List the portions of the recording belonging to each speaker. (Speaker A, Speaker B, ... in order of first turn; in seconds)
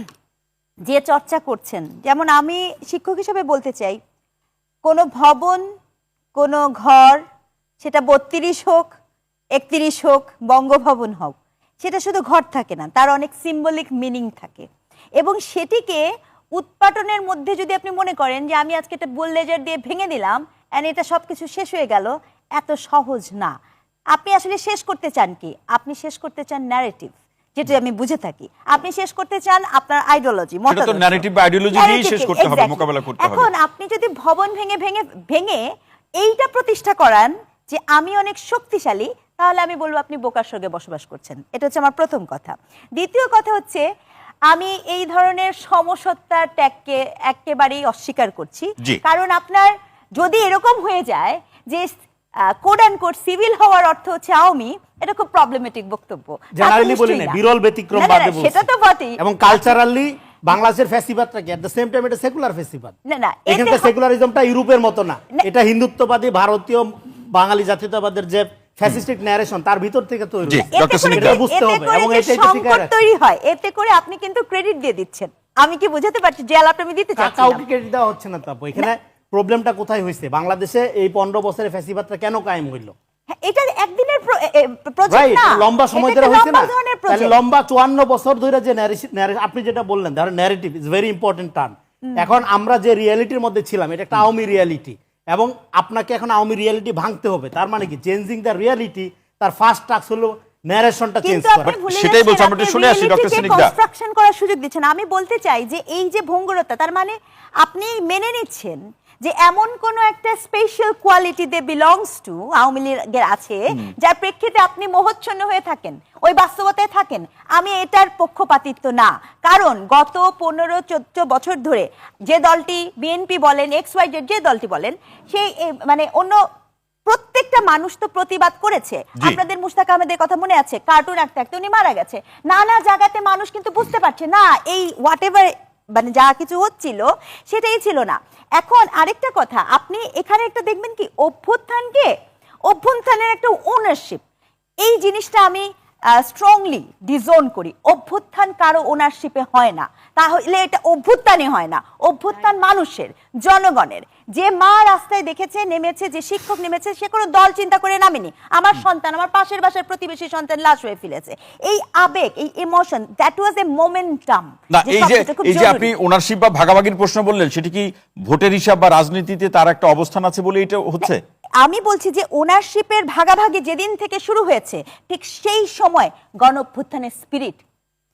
Speaker A: 0.9-4.0, 4.8-5.6, 6.3-7.2, 7.8-8.9, 9.5-14.7, 15.2-16.0, 16.6-23.5, 24.1-31.2, 31.7-35.6, 36.2-43.9, 44.5-57.4, 57.9-59.8, 63.1-63.9, 70.7-77.6, 83.4-87.3, 101.2-126.4, 127.1-142.1, 142.7-144.2, 144.8-165.9, 171.0-177.6
Speaker B: 30.7-33.5, 70.5-71.4, 101.6-103.7, 164.7-171.2
Speaker C: 56.5-58.6, 59.2-62.9, 63.5-72.9, 77.2-82.9, 85.1-101.7